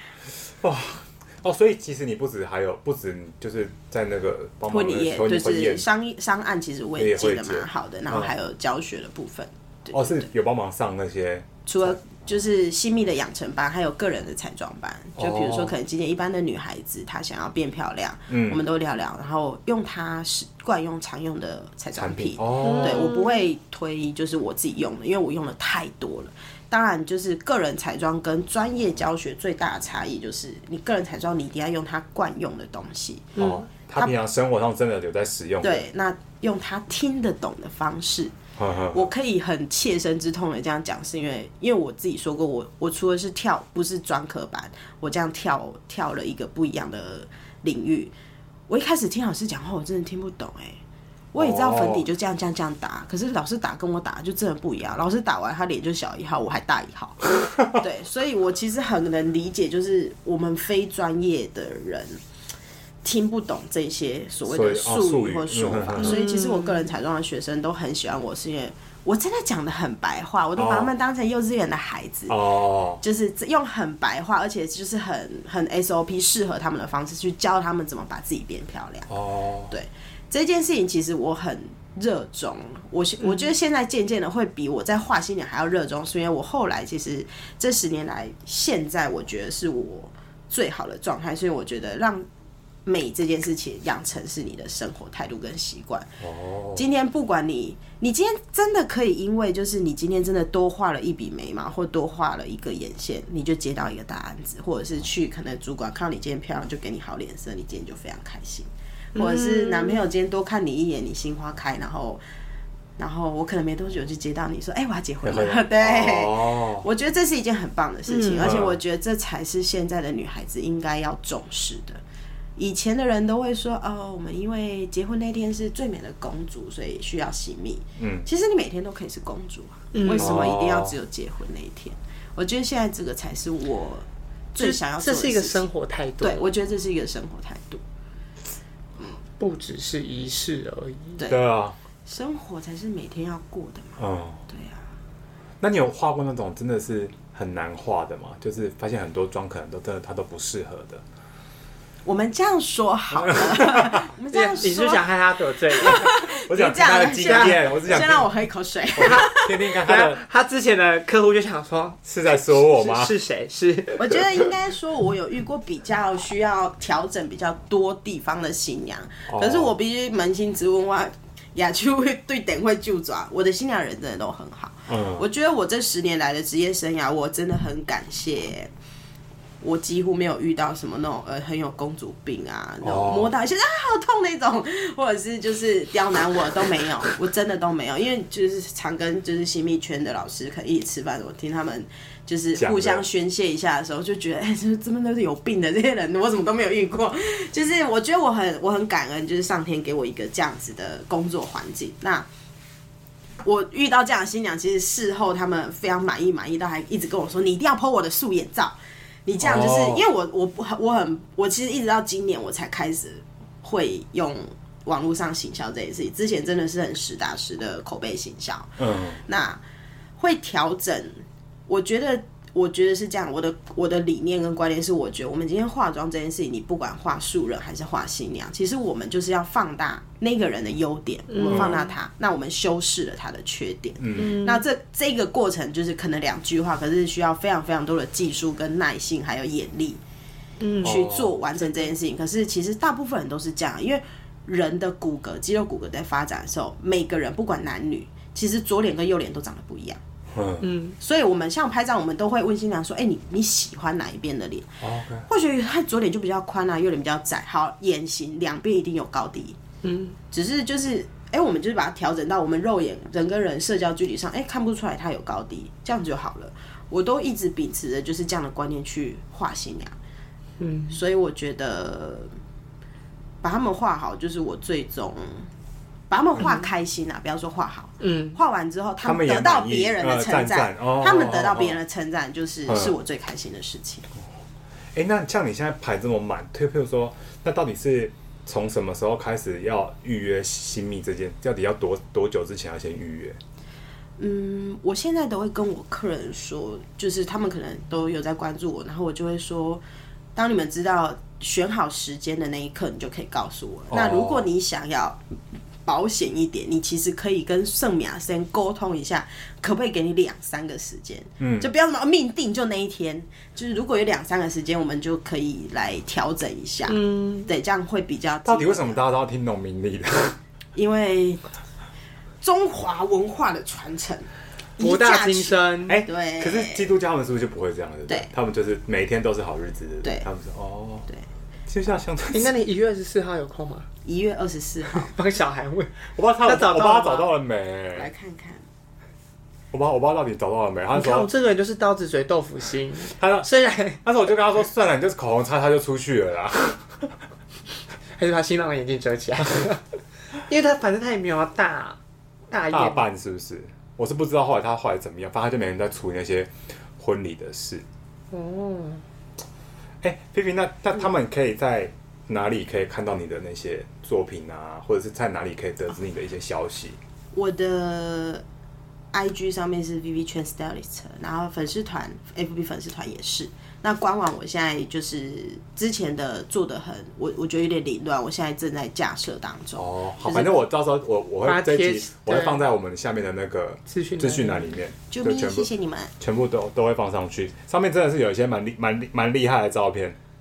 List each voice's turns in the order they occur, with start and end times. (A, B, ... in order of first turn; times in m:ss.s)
0:00.6-0:05.8 A
0:04.7-0:10.3 B
0:07.0-0:08.3 A
0:09.9-0:12.0 A
0:11.7-0:33.3 B
0:15.2-0:15.7 A
0:18.3-0:18.6 A
0:22.0-0:23.1 A
0:22.6-0:23.4 C
0:33.4-0:33.6 C
0:33.4-0:35.9 A
0:35.6-0:38.3 B
0:38.6-0:39.1 A
0:38.9-0:48.1 B
0:48.7-0:50.8 B
0:51.3-1:02.2 B
0:51.4-0:52.0 A
1:03.0-1:12.4 B
1:04.5-1:06.2 A
1:06.0-1:06.9 C
1:10.6-1:10.9 A
1:12.3-1:13.0 A
1:13.0-1:19.1 B
1:19.1-1:19.7 A
1:19.7-1:32.3 B
1:32.9-1:36.1 B
1:36.2-1:36.8 A
1:36.8-1:52.2 B
1:49.2-1:50.0 C
1:53.0-2:02.0 B
1:55.2-1:56.8 A
1:58.1-1:58.5 C
1:58.4-1:58.8 A
2:02.6-2:15.7 B
2:08.0-2:08.3 A
2:09.9-2:10.3 C
2:10.2-2:11.0 A
2:14.6-2:16.5 C
2:16.2-2:17.8 B
2:19.4-2:21.2 C
2:21.3-2:21.8 A
2:22.1-2:24.8 B
2:24.0-2:24.4 A
2:25.6-2:31.0 A
2:32.0-2:35.0 B
2:33.2-2:34.0 A
2:34.3-2:36.1 C
2:35.7-2:39.5 B
2:36.3-2:38.3 A
2:37.2-2:37.6 C
2:39.0-2:40.2 A
2:39.0-2:44.5 C
2:42.0-2:43.1 A
2:44.0-2:58.7 B
2:49.3-2:49.7 A
2:54.9-2:55.2 A
2:59.6-3:22.3 B
3:02.8-3:03.3 A
3:12.6-3:13.0 A
3:23.4-3:39.6 B
3:29.4-3:30.0 A
3:38.8-3:39.2 A
3:40.2-4:00.0 B
3:51.3-3:51.9 C
3:51.5-3:51.8 A
3:54.0-3:54.4 A
3:54.2-3:54.6 C
4:00.6-4:01.0 C
4:00.8-4:10.0 B
4:00.8-4:01.3 A
4:10.3-4:10.7 A
4:10.6-4:11.0 C
4:11.0-4:14.7 B
4:14.8-4:15.3 A
4:15.3-4:19.6 B
4:19.8-4:20.2 C
4:20.3-4:30.0 B
4:30.6-4:31.0 C
4:30.9-4:32.3 B
4:33.4-4:35.5 B
4:36.1-4:44.1 B
4:36.4-4:36.7 C
4:38.0-4:38.4 C
4:39.0-4:41.8 A
4:42.7-4:43.0 A
4:45.0-4:53.4 A
4:54.2-4:59.8 B
5:00.4-5:05.2 B
5:03.9-5:04.5 A
5:05.9-5:19.0 B
5:11.4-5:11.7 A
5:16.9-5:17.5 C
5:18.4-5:20.4 A
5:20.8-5:21.4 B
5:22.4-5:24.3 B
5:24.8-5:26.0 C
5:24.8-5:26.8 B
5:25.9-5:31.1 A
5:31.7-5:32.5 A
5:32.3-5:33.9 C
5:34.0-5:35.1 B
5:34.9-5:37.3 C
5:36.2-5:38.1 A
5:37.9-5:38.6 B
5:39.7-5:41.3 A
5:40.9-5:44.0 C
5:43.2-5:43.5 A
5:44.0-5:46.8 A
5:48.2-5:49.8 C
5:50.4-5:52.0 C
5:52.5-5:53.1 C
5:52.7-5:57.8 A
5:58.3-5:59.0 C
6:00.0-6:07.0 A
6:07.3-6:08.4 B
6:09.1-6:20.6 B
6:19.8-6:25.7 A
6:21.4-6:22.6 C
6:23.9-6:24.7 C
6:25.1-6:26.1 B
6:26.2-6:30.2 A